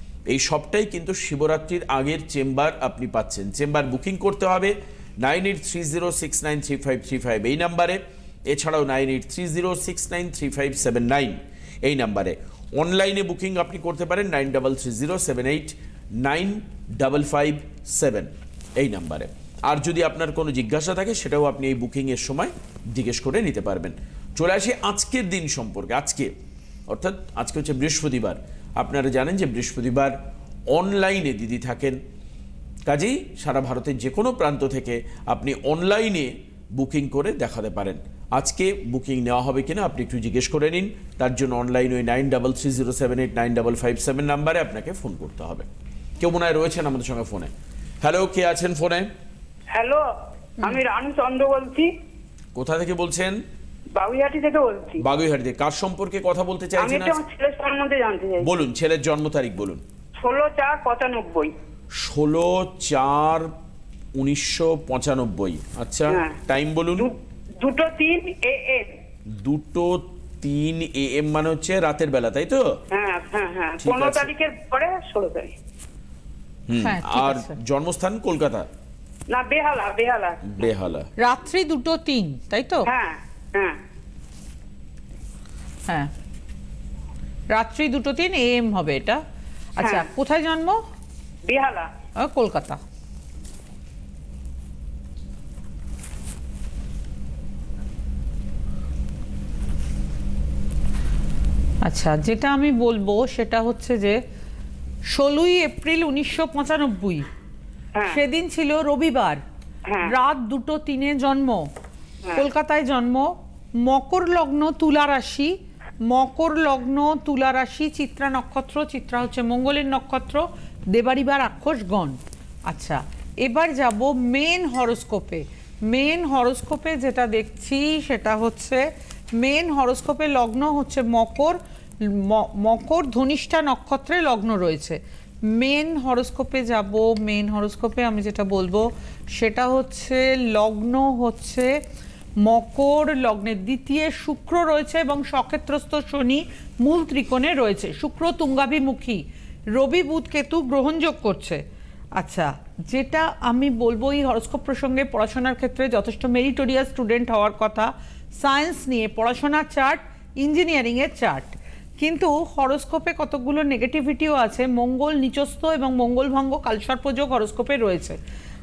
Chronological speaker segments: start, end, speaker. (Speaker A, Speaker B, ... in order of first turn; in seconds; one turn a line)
Speaker A: 0.3-26.3
Speaker A: 26.9-30.1
Speaker A: 30.7-32.0
Speaker A: 32.9-45.7
Speaker A: 46.2-49.1
Speaker B: 49.7-50.0
Speaker B: 50.6-51.9
Speaker A: 52.5-53.4
Speaker B: 53.9-55.0
Speaker A: 55.0-57.2
Speaker B: 56.8-58.5
Speaker A: 58.4-59.8
Speaker B: 60.2-61.5
Speaker A: 61.9-63.5
Speaker A: 64.2-67.1
Speaker B: 66.1-66.4
Speaker B: 67.0-68.9
Speaker A: 69.3-72.8
Speaker B: 72.9-75.5
Speaker A: 73.8-74.3
Speaker A: 76.7-78.7
Speaker C: 76.8-77.6
Speaker B: 79.3-80.6
Speaker A: 80.4-81.1
Speaker C: 81.2-82.9
Speaker B: 82.8-83.8
Speaker C: 87.5-89.2
Speaker C: 89.8-90.8
Speaker B: 91.5-91.9
Speaker C: 92.2-92.8
Speaker C: 101.8-104.2
Speaker C: 105.1-107.2
Speaker C: 108.1-109.4
Speaker B: 109.9-110.1
Speaker C: 110.0-111.7
Speaker C: 112.3-128.8
Speaker C: 129.4-141.8
Speaker C: 142.4-151.6
Speaker C: 152.2-168.2